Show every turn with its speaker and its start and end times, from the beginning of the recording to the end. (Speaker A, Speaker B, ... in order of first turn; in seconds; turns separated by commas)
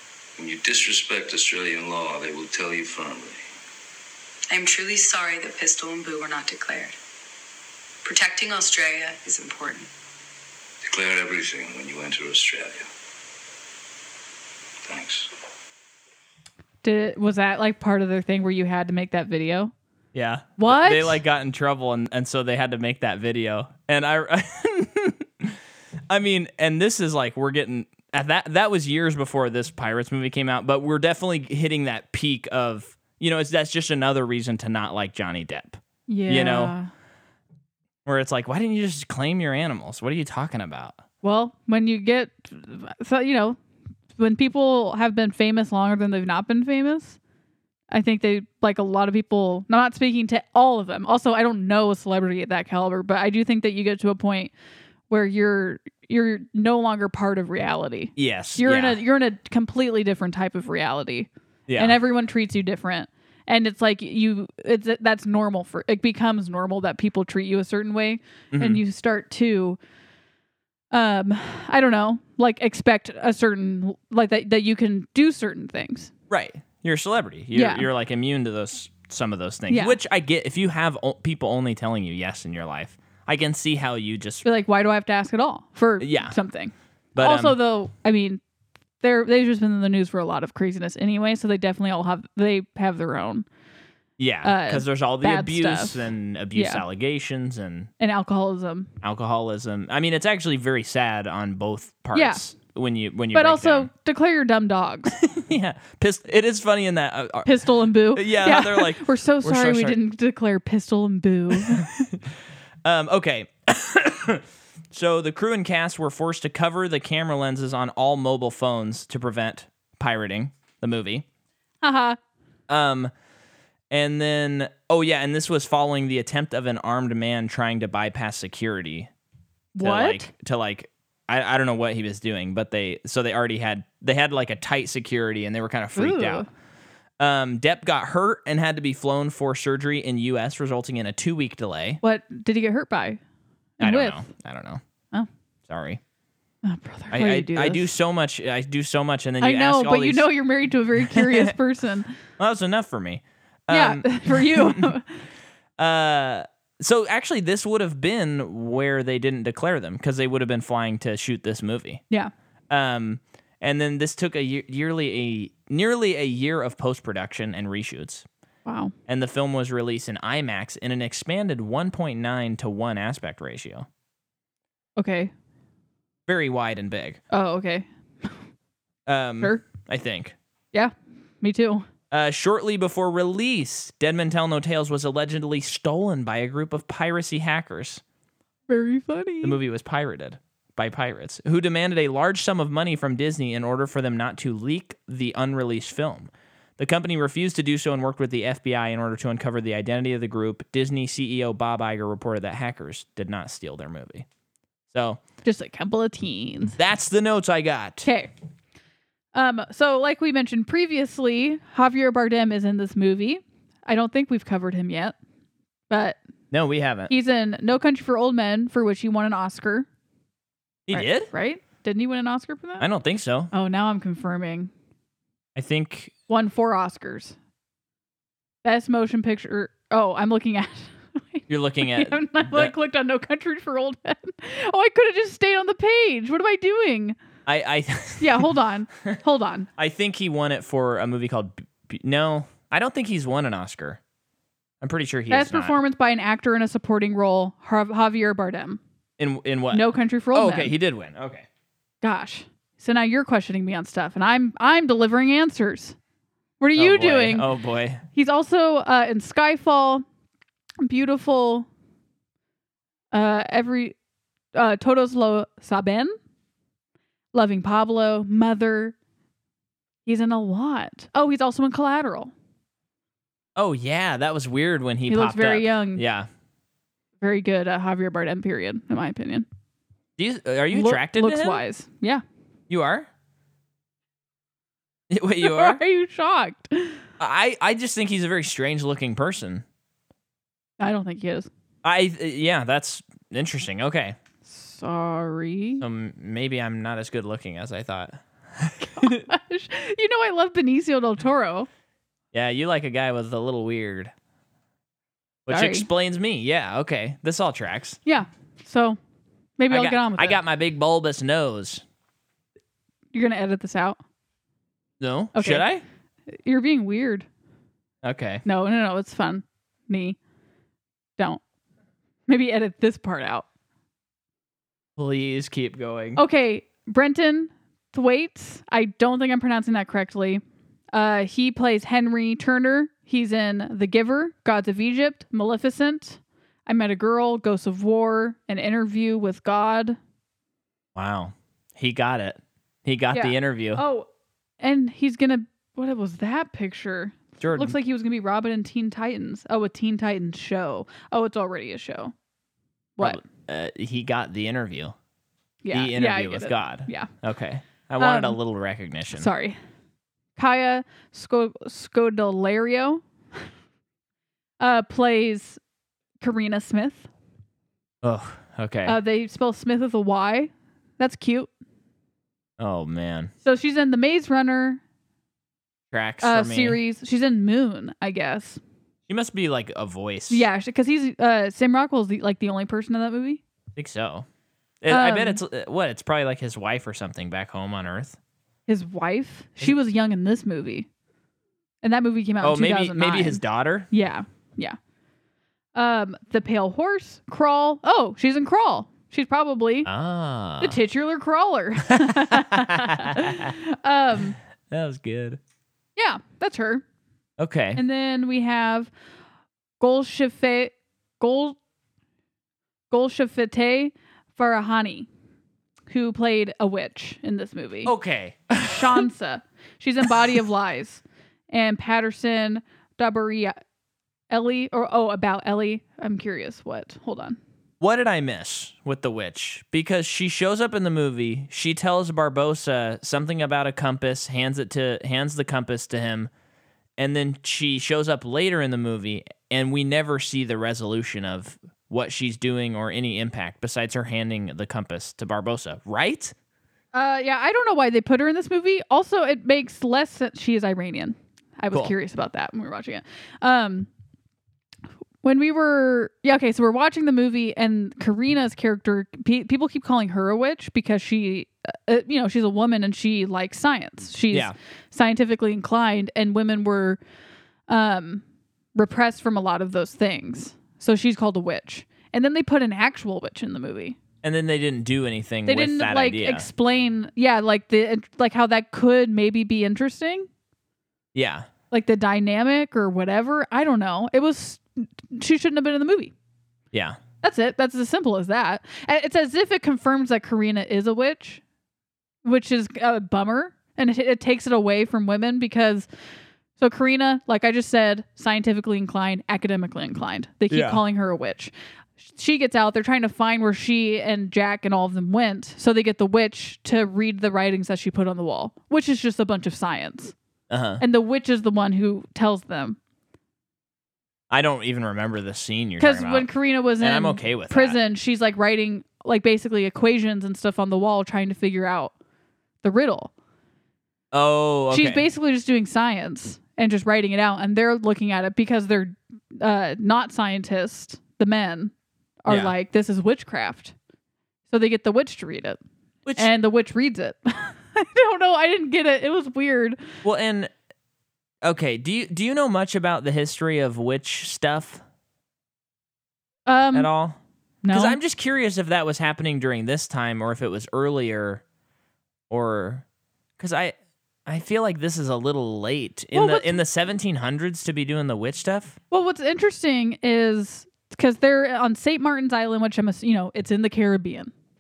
Speaker A: 0.4-3.4, Speaker B: 4.5-7.0, Speaker B: 8.0-9.9, Speaker A: 10.8-12.9, Speaker A: 14.8-15.3, Speaker C: 16.8-19.7, Speaker D: 20.1-36.8, Speaker C: 20.6-21.2, Speaker C: 36.1-36.9, Speaker D: 38.0-41.0, Speaker C: 41.2-43.6, Speaker C: 44.2-47.2, Speaker C: 47.9-54.5, Speaker C: 55.1-69.8, Speaker D: 58.2-59.0, Speaker D: 61.7-62.0, Speaker D: 68.5-68.8, Speaker C: 70.9-76.1, Speaker D: 76.3-84.5, Speaker C: 77.5-77.9, Speaker C: 79.7-80.0, Speaker C: 84.4-88.4, Speaker D: 86.0-86.4, Speaker D: 87.2-87.6, Speaker C: 89.0-93.5, Speaker D: 94.2-97.9, Speaker C: 94.4-96.8, Speaker C: 98.0-98.9, Speaker D: 99.0-103.9, Speaker C: 102.1-102.4, Speaker C: 103.3-105.2, Speaker D: 105.1-110.0, Speaker C: 107.5-112.0, Speaker D: 111.5-112.2, Speaker D: 112.8-121.2, Speaker C: 121.8-122.2, Speaker D: 122.7-123.1, Speaker D: 123.9-129.1, Speaker C: 129.8-130.3, Speaker D: 129.8-136.5, Speaker C: 136.0-136.5, Speaker D: 137.2-142.0, Speaker C: 142.0-143.2, Speaker C: 143.8-144.3, Speaker D: 143.8-144.8, Speaker D: 145.7-146.0, Speaker C: 146.6-147.9, Speaker D: 147.1-150.3, Speaker C: 149.4-152.1, Speaker D: 151.0-151.5, Speaker D: 152.4-154.9, Speaker C: 153.7-155.2, Speaker D: 155.8-162.0, Speaker D: 162.7-168.3, Speaker C: 168.7-168.9, Speaker D: 169.1-173.9, Speaker C: 175.0-175.3, Speaker D: 176.3-177.2, Speaker C: 177.3-178.3, Speaker D: 179.1-180.3, Speaker C: 180.7-181.9, Speaker D: 182.1-188.0, Speaker C: 188.7-189.6, Speaker D: 189.4-204.3, Speaker D: 204.9-205.2, Speaker C: 205.4-206.8, Speaker D: 206.8-208.1, Speaker C: 208.0-208.3, Speaker C: 209.3-215.2, Speaker C: 215.9-216.2, Speaker D: 216.5-217.1, Speaker C: 217.1-219.9, Speaker D: 220.9-221.3, Speaker C: 220.9-222.9, Speaker D: 222.8-223.5, Speaker C: 223.5-224.7, Speaker D: 225.6-226.1, Speaker C: 226.3-227.3, Speaker C: 228.6-237.2, Speaker D: 231.5-232.7, Speaker D: 237.5-238.5, Speaker C: 238.2-239.7, Speaker D: 239.8-244.0, Speaker D: 244.8-245.8, Speaker C: 245.3-248.8, Speaker D: 249.2-251.5, Speaker C: 249.7-250.7, Speaker C: 252.0-256.0, Speaker C: 256.6-257.5, Speaker D: 256.8-258.0, Speaker C: 258.1-260.0, Speaker C: 260.8-261.7, Speaker C: 263.1-263.9, Speaker C: 264.5-266.2, Speaker C: 267.3-268.9, Speaker C: 270.1-272.3, Speaker D: 273.6-276.3, Speaker C: 275.1-276.0, Speaker C: 277.2-279.5, Speaker D: 280.2-281.6, Speaker C: 280.7-282.2, Speaker D: 282.7-283.1, Speaker D: 285.1-285.8, Speaker C: 285.4-287.0, Speaker D: 287.2-289.6, Speaker C: 290.8-291.5, Speaker D: 291.8-294.2, Speaker C: 294.5-295.8, Speaker D: 295.8-299.2, Speaker C: 298.8-301.7, Speaker D: 302.3-304.1, Speaker D: 305.5-308.0, Speaker C: 305.5-305.9, Speaker C: 308.1-309.0, Speaker C: 309.6-310.4, Speaker D: 309.7-311.8, Speaker C: 313.1-314.0, Speaker D: 315.0-315.8, Speaker C: 315.4-315.6, Speaker C: 316.3-317.3, Speaker D: 318.0-318.4, Speaker C: 318.4-320.2, Speaker C: 322.3-323.5, Speaker D: 325.0-326.2, Speaker C: 326.2-330.4, Speaker C: 330.9-340.0, Speaker D: 340.9-343.8, Speaker C: 343.1-344.1, Speaker C: 344.6-352.1, Speaker D: 347.4-347.8, Speaker D: 353.0-354.9, Speaker C: 355.6-357.1, Speaker D: 355.7-359.3, Speaker C: 358.0-358.4, Speaker C: 359.1-359.6, Speaker C: 360.4-363.0, Speaker C: 364.6-365.6, Speaker C: 366.2-367.1, Speaker D: 368.0-369.0, Speaker C: 368.9-371.5, Speaker D: 372.6-373.3, Speaker C: 373.4-374.8, Speaker D: 375.9-376.8, Speaker C: 376.2-378.6, Speaker D: 379.1-380.5, Speaker C: 380.3-383.4, Speaker D: 383.8-384.3, Speaker D: 384.8-388.2, Speaker C: 384.9-385.4, Speaker C: 388.7-390.9, Speaker C: 391.8-394.8, Speaker D: 392.4-393.9, Speaker C: 395.8-399.9, Speaker D: 399.9-400.8, Speaker C: 400.6-404.4, Speaker D: 401.9-403.6, Speaker D: 404.7-405.4, Speaker C: 406.0-406.8, Speaker D: 407.4-407.8, Speaker C: 407.8-408.9, Speaker C: 409.8-411.6, Speaker C: 412.9-415.1, Speaker C: 415.9-417.9, Speaker D: 417.9-419.1, Speaker C: 418.6-423.6, Speaker C: 424.3-427.4, Speaker D: 427.8-436.3, Speaker D: 437.0-446.4, Speaker C: 446.9-453.9, Speaker C: 455.2-467.0, Speaker C: 467.7-468.2, Speaker C: 468.8-474.0, Speaker D: 474.2-476.5, Speaker C: 475.5-480.3, Speaker D: 481.1-481.5, Speaker C: 481.7-486.1, Speaker D: 486.7-487.0, Speaker C: 487.2-491.4, Speaker C: 492.2-495.9, Speaker C: 496.6-510.1, Speaker D: 500.5-500.8, Speaker D: 510.5-510.8, Speaker C: 510.8-512.8, Speaker D: 514.3-516.3, Speaker C: 515.8-521.9, Speaker D: 516.8-517.8, Speaker C: 522.6-523.1, Speaker D: 524.1-525.0, Speaker C: 524.7-531.7, Speaker C: 532.2-533.7, Speaker D: 532.3-532.5, Speaker C: 534.5-535.6, Speaker D: 536.0-536.3, Speaker C: 536.2-539.8, Speaker D: 540.0-540.5, Speaker D: 541.4-544.8, Speaker C: 546.5-546.9, Speaker D: 546.7-547.2, Speaker C: 547.6-548.0, Speaker D: 547.7-551.4, Speaker D: 552.3-552.9, Speaker D: 553.4-553.8, Speaker D: 554.3-558.8, Speaker C: 556.1-556.6, Speaker C: 558.9-564.3